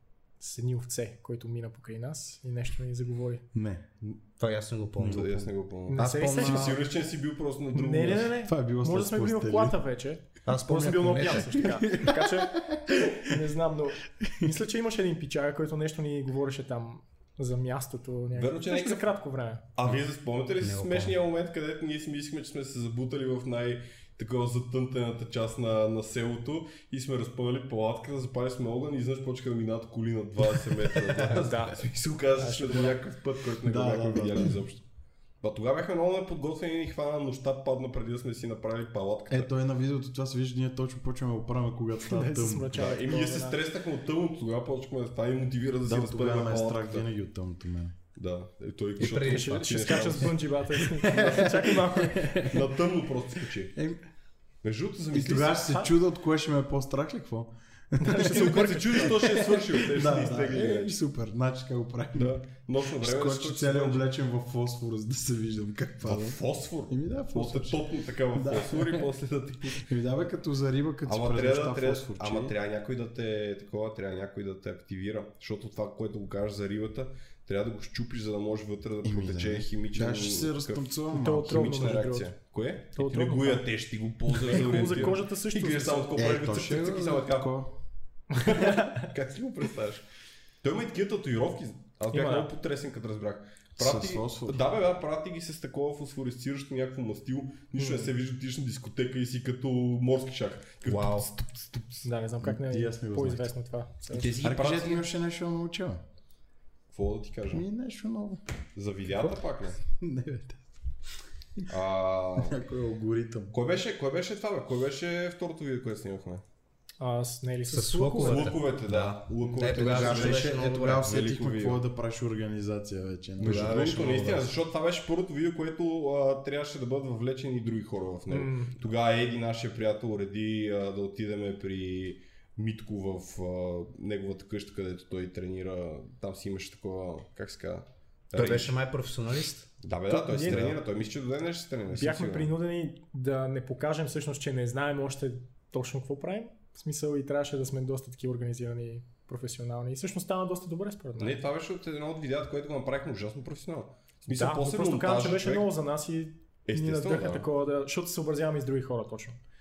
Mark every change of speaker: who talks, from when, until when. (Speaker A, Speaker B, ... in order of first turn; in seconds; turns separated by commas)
Speaker A: 0.4-3.4, Speaker B: 3.5-3.8, Speaker C: 4.4-5.3, Speaker B: 5.0-5.5, Speaker D: 5.0-8.3, Speaker A: 5.9-6.8, Speaker C: 5.9-6.8, Speaker A: 7.7-19.6, Speaker B: 8.4-9.8, Speaker C: 10.4-11.8, Speaker B: 11.6-13.2, Speaker D: 18.4-19.1, Speaker D: 19.8-34.8, Speaker C: 20.6-21.1, Speaker A: 31.3-33.0, Speaker B: 33.6-34.6, Speaker D: 35.4-39.5, Speaker B: 39.3-43.0, Speaker A: 42.1-43.6, Speaker D: 42.7-47.0, Speaker B: 45.8-47.9, Speaker D: 48.1-50.5, Speaker C: 49.0-50.2, Speaker A: 49.0-52.6, Speaker D: 51.0-51.7, Speaker B: 51.0-52.4, Speaker D: 52.4-53.8, Speaker B: 53.7-54.0, Speaker D: 54.6-55.7, Speaker B: 55.1-62.4, Speaker A: 58.0-59.6, Speaker D: 58.2-60.9, Speaker D: 62.1-64.0, Speaker B: 63.0-69.1, Speaker D: 66.0-69.8, Speaker B: 69.7-72.5, Speaker D: 71.0-87.5, Speaker B: 79.0-81.8, Speaker A: 81.1-82.3, Speaker A: 83.0-83.7, Speaker A: 84.3-86.3, Speaker B: 86.1-87.7, Speaker A: 88.3-89.1, Speaker D: 88.4-90.0, Speaker D: 90.6-102.1, Speaker A: 92.1-92.5, Speaker B: 93.8-94.6, Speaker A: 97.8-98.1, Speaker C: 100.8-101.3, Speaker A: 102.0-104.3, Speaker B: 102.4-103.5, Speaker D: 104.1-105.0, Speaker C: 104.2-104.7, Speaker B: 104.4-106.0, Speaker D: 106.9-107.6, Speaker B: 107.5-108.4, Speaker D: 108.8-109.8, Speaker B: 109.1-109.3, Speaker B: 109.9-110.6, Speaker D: 111.7-112.6, Speaker B: 112.4-113.5, Speaker D: 113.5-116.4, Speaker A: 117.0-118.5, Speaker C: 117.7-121.1, Speaker D: 118.2-121.8, Speaker B: 119.6-123.9, Speaker D: 123.4-138.8, Speaker C: 123.4-124.5, Speaker A: 128.3-128.8, Speaker C: 138.3-139.7, Speaker D: 139.8-142.5, Speaker A: 140.1-140.8, Speaker A: 141.9-151.4, Speaker D: 151.2-155.7, Speaker A: 154.3-159.4, Speaker D: 156.7-157.5